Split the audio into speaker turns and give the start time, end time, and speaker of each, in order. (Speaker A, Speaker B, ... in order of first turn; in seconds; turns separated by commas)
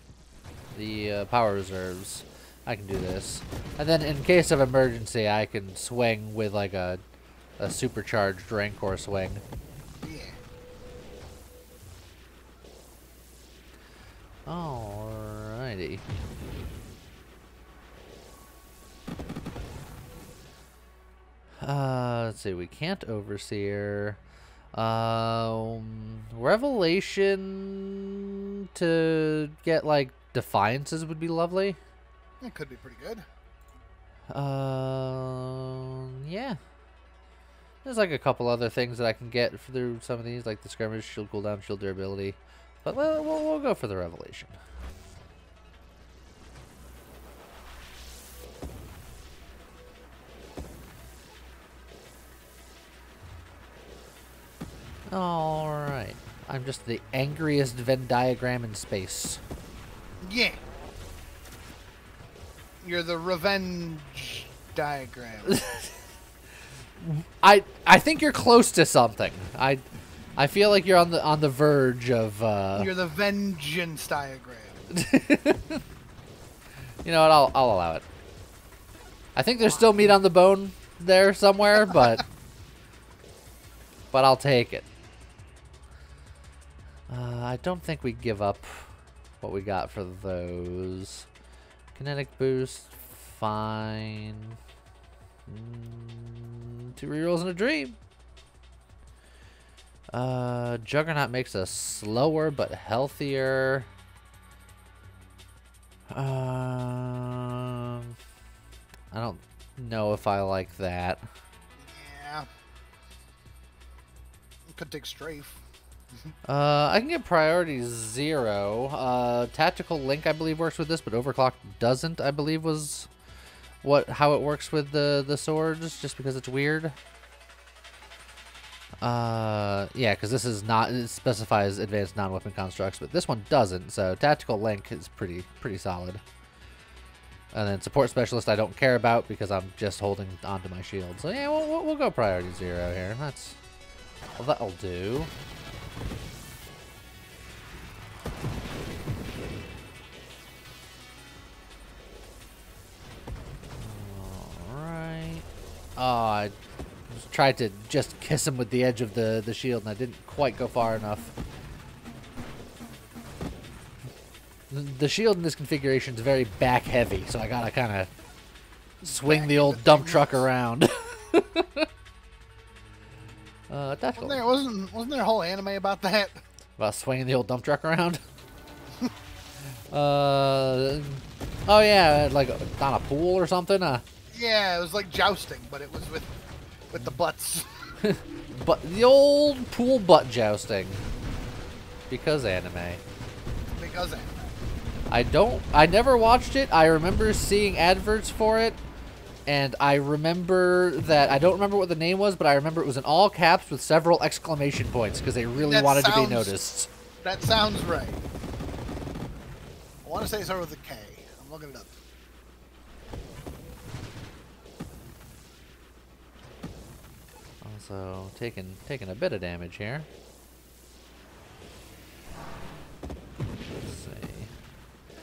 Speaker A: 0.7-7.0, Speaker A: 7.6-9.4, Speaker B: 10.0-10.4, Speaker A: 14.4-16.0, Speaker A: 21.6-24.2, Speaker A: 24.7-31.8, Speaker B: 32.4-33.2, Speaker A: 34.3-36.6, Speaker A: 37.8-44.6, Speaker A: 55.1-59.4, Speaker B: 60.2-60.6, Speaker B: 62.8-65.6, Speaker A: 65.5-66.0, Speaker A: 67.0-69.8, Speaker A: 70.4-72.9, Speaker B: 72.7-74.8, Speaker A: 74.9-75.8, Speaker A: 77.0-78.0, Speaker A: 79.3-82.2, Speaker B: 79.6-80.0, Speaker A: 84.1-84.9, Speaker A: 87.1-91.3, Speaker A: 91.9-94.6, Speaker A: 95.5-98.0, Speaker A: 100.1-103.9, Speaker A: 106.1-108.2, Speaker A: 109.1-111.2, Speaker B: 111.8-112.5, Speaker B: 114.7-115.6, Speaker A: 116.5-123.1, Speaker A: 123.8-127.0, Speaker A: 129.0-136.2, Speaker A: 137.5-143.6, Speaker A: 144.4-145.3, Speaker A: 153.8-156.5, Speaker A: 157.1-161.3, Speaker A: 164.7-168.1, Speaker A: 169.0-171.9, Speaker B: 169.0-170.4, Speaker A: 173.7-174.4, Speaker B: 174.2-176.4, Speaker A: 176.8-178.2, Speaker A: 179.9-184.0, Speaker B: 184.3-186.3, Speaker B: 186.9-187.7, Speaker A: 188.0-191.0, Speaker A: 192.1-193.0, Speaker B: 193.7-194.5, Speaker A: 195.1-198.8, Speaker A: 199.5-206.9, Speaker B: 205.6-208.2, Speaker B: 210.0-212.0, Speaker A: 217.6-220.1, Speaker A: 223.8-224.5